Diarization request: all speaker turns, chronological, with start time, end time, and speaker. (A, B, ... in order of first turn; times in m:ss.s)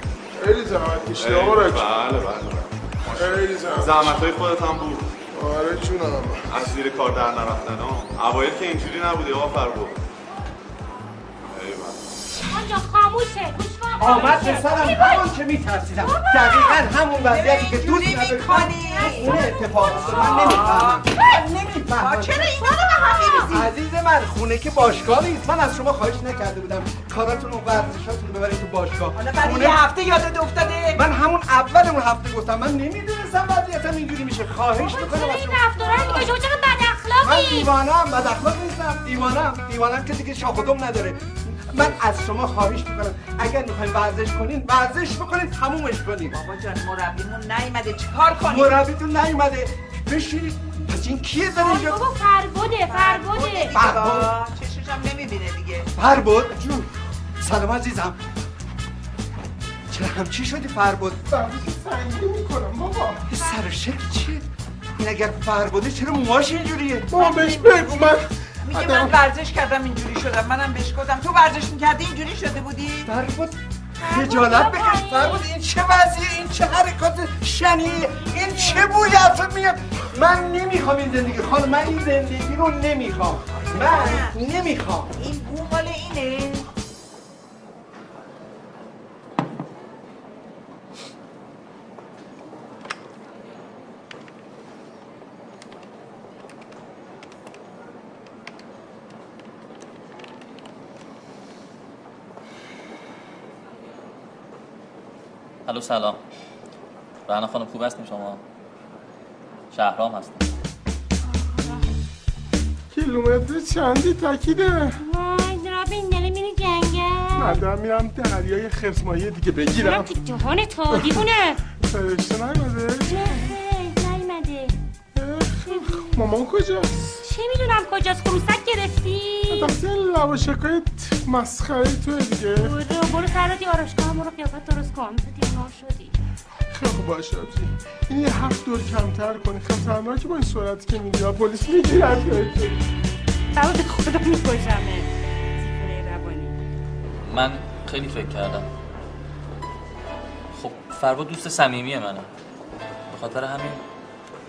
0:00.4-0:01.8 A
0:01.2-0:05.2 B
0:03.2-0:04.2 A
0:05.3-0:06.6 A
0:06.5-0:09.9 B
0:11.5-0:12.0 B
0:12.5-0:15.3 C
0:14.0-0:22.5 D
0:16.0-0:16.8 C
0:17.2-0:21.2 E
0:19.0-0:20.3 C
0:21.9-0:23.7 E
0:23.0-0:23.4 C
0:23.4-0:29.9 D
0:29.2-0:31.0 E
0:30.9-0:36.3 D
0:34.8-0:37.7 C
0:37.2-0:46.3 D
0:46.3-0:48.8 E
0:48.5-0:52.0 D
0:51.5-0:53.7 C
0:52.9-0:55.9 E
0:53.7-0:54.3 D
0:56.0-0:56.8 D
0:57.4-0:58.2 D
0:59.9-1:01.2 D
1:01.3-1:03.2 A
1:03.3-1:03.8 E
1:03.4-1:04.4 D
1:05.0-1:07.1 D
1:07.1-1:09.1 A
1:07.2-1:13.1 E
1:13.0-1:25.1 D
1:14.0-1:15.5 C
1:18.2-1:19.1 C
1:23.5-1:24.4 E
1:25.2-1:26.7 E
1:45.6-1:46.2 F
1:47.3-1:48.4 F
1:49.7-1:50.4 F
1:52.9-1:55.0 A
1:55.0-1:57.6 C
1:57.4-2:00.1 A
1:59.8-2:01.6 C
2:00.9-2:01.2 A
2:01.8-2:03.3 A
2:03.0-2:04.8 C
2:05.1-2:07.2 A
2:05.6-2:06.2 C
2:07.2-2:09.7 C
2:09.5-2:12.7 A
2:12.6-2:16.2 C
2:16.7-2:22.8 A
2:23.6-2:26.6 C
2:27.2-2:28.7 F
2:30.5-2:32.3 F
2:33.1-2:33.8 F